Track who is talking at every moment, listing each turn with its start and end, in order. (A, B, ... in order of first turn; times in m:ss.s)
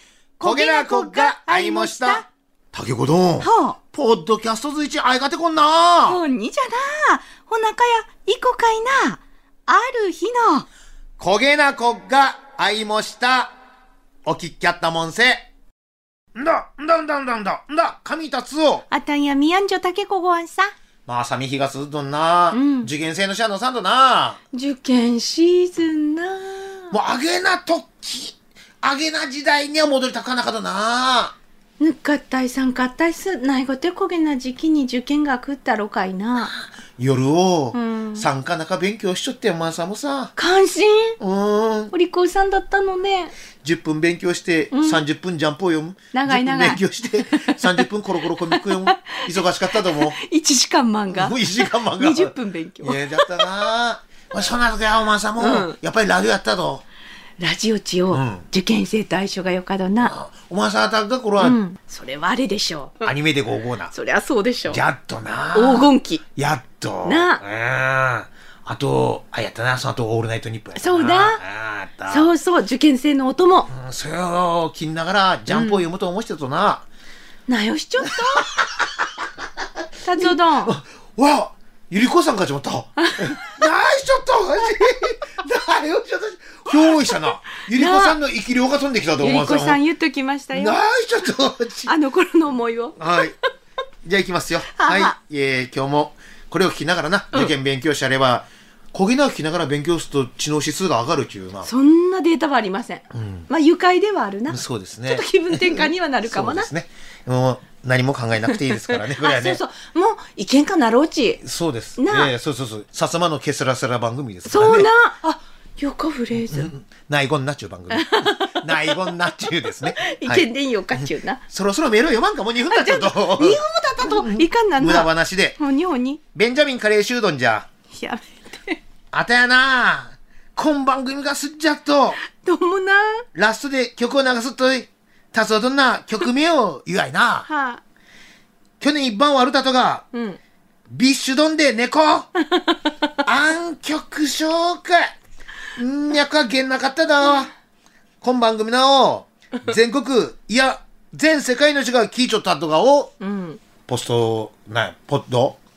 0:00.4-0:02.2 A
0:00.4-0:06.2 B
0:03.4-0:03.8 A
0:06.0-0:10.7 A
0:11.2-0:13.5 B
0:14.2-0:15.4 B
0:16.3-0:18.8 B
0:18.9-0:20.7 A
0:21.0-0:24.4 B
0:22.5-0:22.9 A
0:24.5-0:26.9 A
0:26.9-0:31.3 B
0:31.8-0:36.5 A
0:37.0-0:40.3 B
0:37.7-0:38.3 A
0:40.4-0:41.2 A
0:41.2-0:41.9 B
0:41.9-0:43.3 A
0:43.6-0:50.2 B
0:44.7-0:45.0 A
0:46.1-0:53.7 A
0:51.1-0:56.8 B
0:55.4-0:55.8 A
0:57.4-1:00.1 A
0:58.1-0:58.4 B
1:00.0-1:01.6 B
1:01.4-1:03.1 A
1:03.0-1:03.9 B
1:03.9-1:04.8 A
1:04.7-1:12.3 B
1:05.5-1:06.2 A
1:07.0-1:07.4 A
1:10.7-1:11.4 A
1:12.1-1:13.7 A
1:13.7-1:16.8 B
1:15.5-1:15.8 A
1:17.5-1:18.5 A
1:18.1-1:18.6 B
1:20.0-1:20.7 A
1:20.2-1:29.8 B
1:23.0-1:23.4 A
1:27.7-1:28.2 A
1:29.2-1:30.8 A
1:30.5-1:31.9 B
1:31.9-1:33.2 A
1:33.0-1:33.3 B
1:34.0-1:41.7 B
1:34.7-1:35.2 A
1:41.6-1:46.7 A
1:43.1-1:43.5 B
1:44.5-1:49.6 B
1:48.4-1:51.4 A
1:51.4-1:54.9 B
1:52.0-1:52.3 A
1:54.4-1:56.7 A
1:56.3-2:05.6 B
1:57.9-1:59.1 A
1:59.8-2:01.4 A
2:02.7-2:06.2 A
2:06.3-2:07.7 B
2:07.9-2:08.8 A
2:09.1-2:12.2 B
2:12.4-2:13.2 A
2:13.3-2:17.5 B
2:17.5-2:17.8 A
2:18.8-2:20.0 B
2:20.1-2:20.4 A
2:20.9-2:22.3 B
2:22.6-2:22.9 A
2:23.2-2:25.1 B
2:25.8-2:27.5 B
2:28.2-2:33.1 B
2:33.2-2:33.6 A
2:33.9-2:35.6 B